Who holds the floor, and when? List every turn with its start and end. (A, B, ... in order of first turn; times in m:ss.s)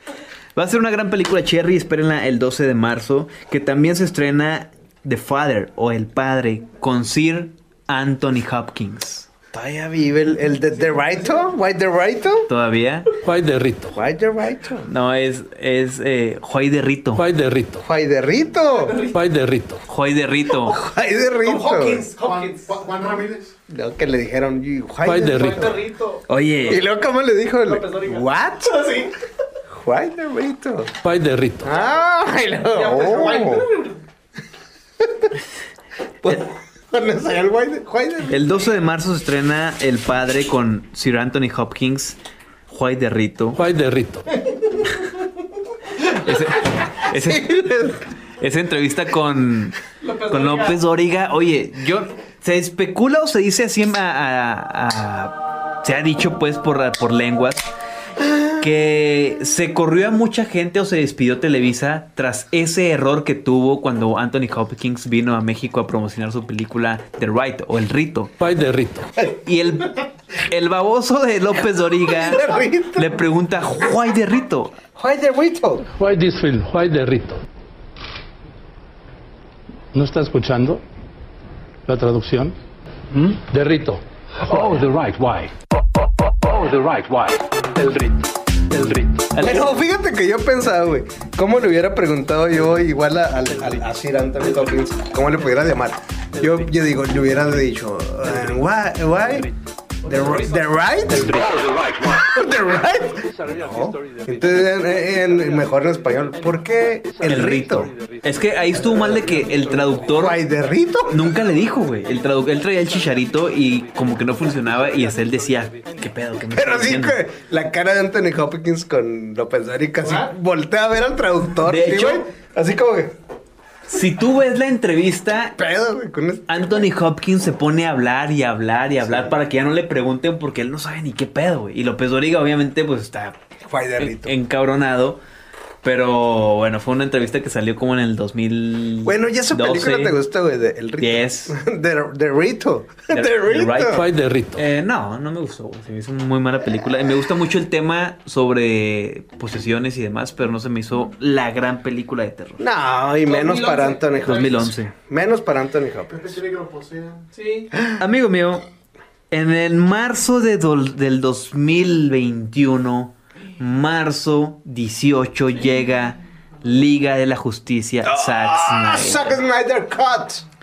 0:00.6-0:09.3 A
0:09.5-0:12.5 B
0:12.5-0:13.1 A
0:13.2-0:14.0 C
0:13.9-0:14.9 B
0:14.9-0:17.2 A
0:17.2-0:17.8 C
0:17.8-0:19.0 B
0:18.7-0:19.1 D
0:19.1-0:19.8 C
0:19.9-0:20.8 A
0:20.6-0:22.1 B
0:21.4-0:23.2 D
0:22.2-0:23.5 E
0:23.7-0:25.8 B
0:25.0-0:25.7 C
0:25.3-0:26.2 D
0:26.3-0:26.8 A
0:26.7-0:28.8 B
0:27.6-0:29.1 D
0:29.7-0:30.9 B
0:31.0-0:31.8 C
0:31.6-0:33.7 B
0:32.7-0:34.0 D
0:35.0-0:35.3 B
0:36.2-0:38.7 B
0:38.3-0:42.2 A
0:42.7-0:43.6 A
0:43.6-0:44.3 C
0:46.2-0:47.9 A
0:47.1-0:48.0 B
0:48.4-0:57.7 A
0:50.0-0:50.8 D
0:58.2-0:58.6 B
0:58.6-1:08.3 A
1:08.4-1:09.1 C
1:09.3-1:14.8 A
1:12.1-1:13.1 B
1:15.0-1:15.8 B
1:16.0-1:17.4 C
1:19.9-1:20.8 C
1:21.9-1:22.6 C
1:23.1-1:25.6 C
1:26.3-1:29.3 C
1:29.3-1:29.7 A
1:29.4-1:39.5 B
1:40.0-1:41.5 B
1:40.1-1:40.5 D
1:41.1-1:42.2 C
1:42.0-1:47.9 B
1:43.4-1:45.3 C
1:47.2-1:50.4 A
1:47.8-1:48.1 C
1:49.0-1:49.3 C
1:50.1-1:51.3 B
1:51.1-1:57.2 A
1:56.6-2:03.2 B
2:01.6-2:02.3 A
2:03.9-2:05.6 A
2:05.6-2:06.9 B
2:06.5-2:13.4 A
2:09.0-2:09.3 B
2:13.6-2:14.4 B
2:14.0-2:15.2 A
2:15.8-2:20.2 A
2:19.0-2:24.0 B
2:21.0-2:21.6 A
2:23.1-2:24.0 A
2:24.0-2:24.6 C
2:24.6-2:32.6 A
2:32.6-2:36.4 B
2:33.3-2:34.7 D
2:34.2-2:34.9 A
2:36.1-2:37.2 E
2:37.3-2:37.7 D
2:37.7-2:38.0 B
2:38.0-2:38.6 A
2:39.3-2:49.4 A
2:48.0-2:50.4 B